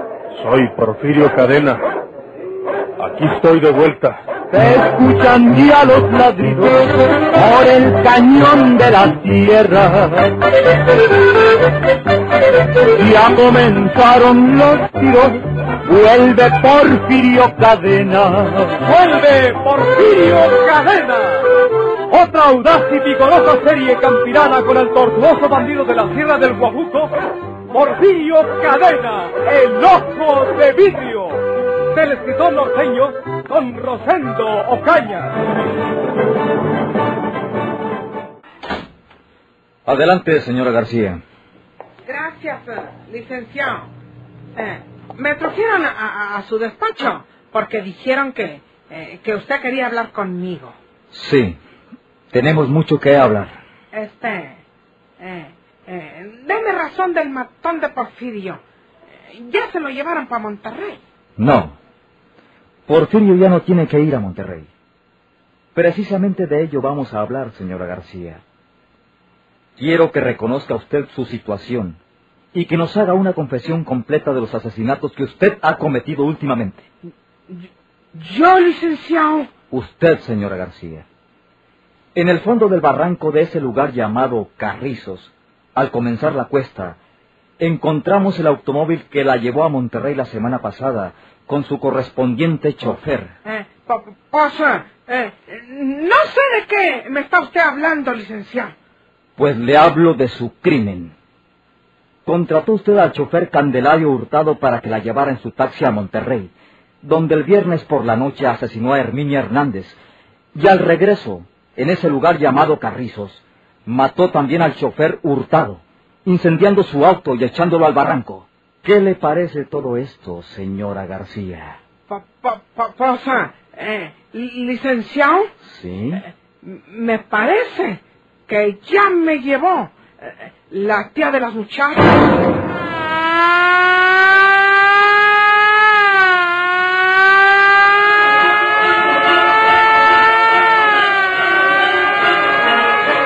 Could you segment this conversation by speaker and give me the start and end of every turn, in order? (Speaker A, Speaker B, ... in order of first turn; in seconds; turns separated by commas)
Speaker A: 0.3-1.8, Speaker A: 3.0-4.2, Speaker B: 4.5-10.3, Speaker B: 12.9-18.8, Speaker C: 18.8-21.5, Speaker C: 22.1-27.1, Speaker C: 27.7-35.4, Speaker D: 39.9-41.2, Speaker E: 42.0-43.9, Speaker E: 44.6-50.8, Speaker D: 51.1-51.6, Speaker D: 52.3-53.5, Speaker E: 53.9-54.6, Speaker E: 55.2-58.6, Speaker E: 59.3-61.0, Speaker D: 61.4-61.8, Speaker D: 62.9-64.7, Speaker D: 65.7-68.4, Speaker D: 69.8-72.0, Speaker D: 72.5-76.8, Speaker E: 77.5-79.5, Speaker D: 79.7-81.0, Speaker D: 82.1-87.0, Speaker D: 87.6-93.3, Speaker E: 93.4-98.7, Speaker D: 99.4-101.1, Speaker D: 102.2-106.5, Speaker D: 107.0-110.0, Speaker D: 110.5-121.8, Speaker E: 122.1-125.5, Speaker D: 125.6-126.2, Speaker E: 126.6-132.4